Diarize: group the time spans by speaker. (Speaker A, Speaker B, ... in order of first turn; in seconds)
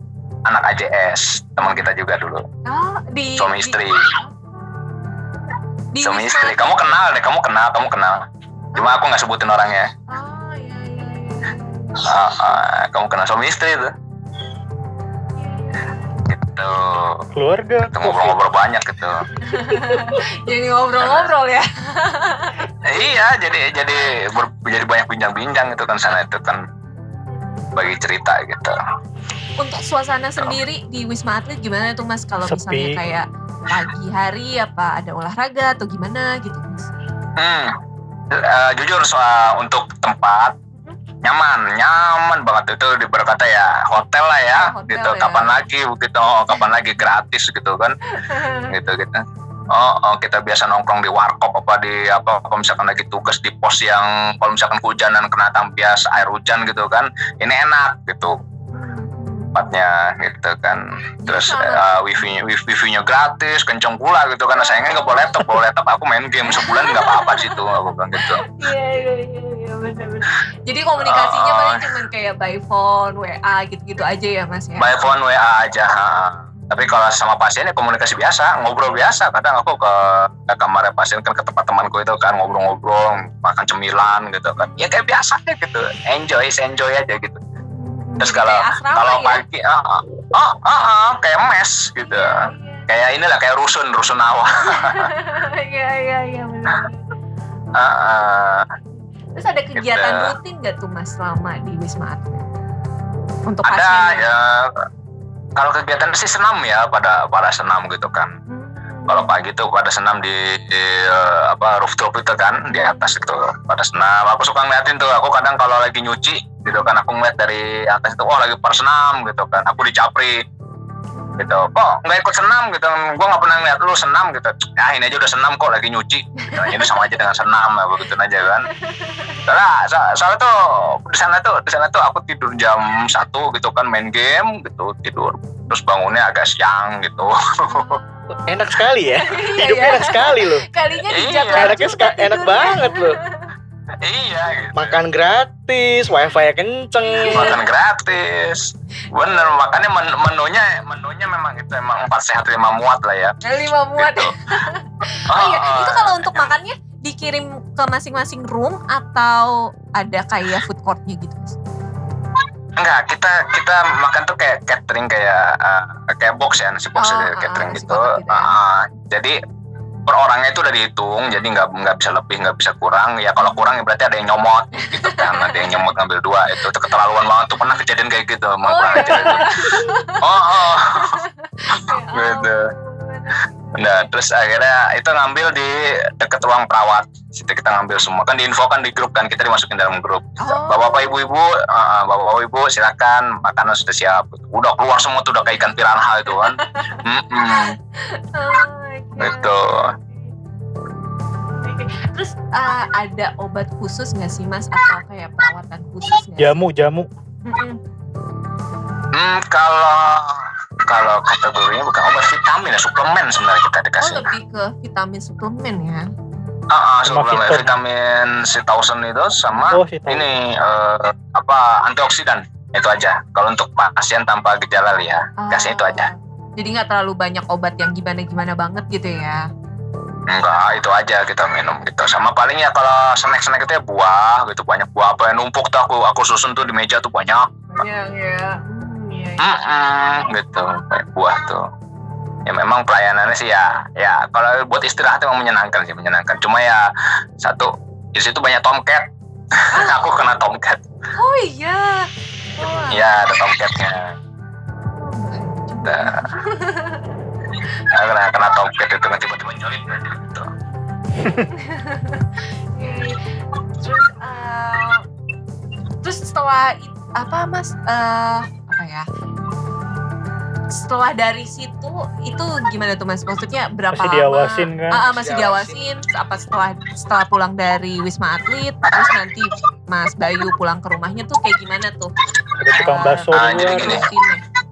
Speaker A: 0.5-2.5, 3.4-4.1, 6.0-8.2, 8.8-9.9, 11.9-13.9, 16.2-17.3, 17.9-19.2, 21.0-21.3, 22.8-26.6, 27.8-28.8, 37.4-37.8, 38.3-40.6, 41.2-48.0, 48.7-58.4, 59.5-68.4, 71.0-71.8, 74.8-87.4, 88.2-92.4, 92.9-95.1, 97.8-98.7, 99.8-100.3, 103.7-104.7, 105.6-108.3, 109.1-120.4, 121.4-128.7, 129.4-138.0, 141.1-141.8, 144.0-145.0, 147.3-154.3, 155.3-156.6, 162.8-169.4, 170.1-182.6, 183.8-197.8, 199.2-199.9, 209.1-214.3, 216.7-226.1, 230.3-237.8, 239.4-241.7, 242.5-246.9, 247.4-250.8, 252.9-254.2, 255.8-256.2, 257.9-260.5, 283.3-284.1
Speaker B: 1.6-1.9, 2.7-5.4, 5.9-7.0, 10.1-12.1, 15.4-16.1, 19.4-22.7, 26.9-27.7, 29.6-36.9, 44.5-45.6, 48.1-48.7, 58.7-59.8, 61.2-61.9, 64.5-65.6, 66.5-75.0, 84.6-85.1, 87.6-89.4, 92.0-92.9, 94.6-97.1, 99.3-102.5, 103.5-104.3, 108.5-109.4, 112.8-113.1, 116.7-116.9, 121.2-121.7, 126.4-126.9, 128.8-129.4, 137.7-138.6, 139.2-143.5, 147.0-147.6, 149.2-149.6, 153.4-161.6, 167.0-168.6, 173.4-173.7, 174.8-175.8, 178.6-184.1, 190.4-191.1, 196.4-197.0, 197.5-200.3, 201.6-206.6, 207.5-207.8, 214.0-216.1, 225.4-229.4, 237.7-239.6, 249.7-250.0, 251.2-253.1, 254.9-257.1, 261.5-265.0, 266.0-269.1, 270.7-282.1, 282.7-284.4
Speaker C: 17.4-18.4, 32.5-33.0, 179.0-179.3, 206.4-207.1, 217.1-217.7, 219.7-220.3, 273.9-275.0, 282.6-284.1
Speaker D: 138.4-140.7, 141.6-143.2, 144.7-147.6, 275.0-275.8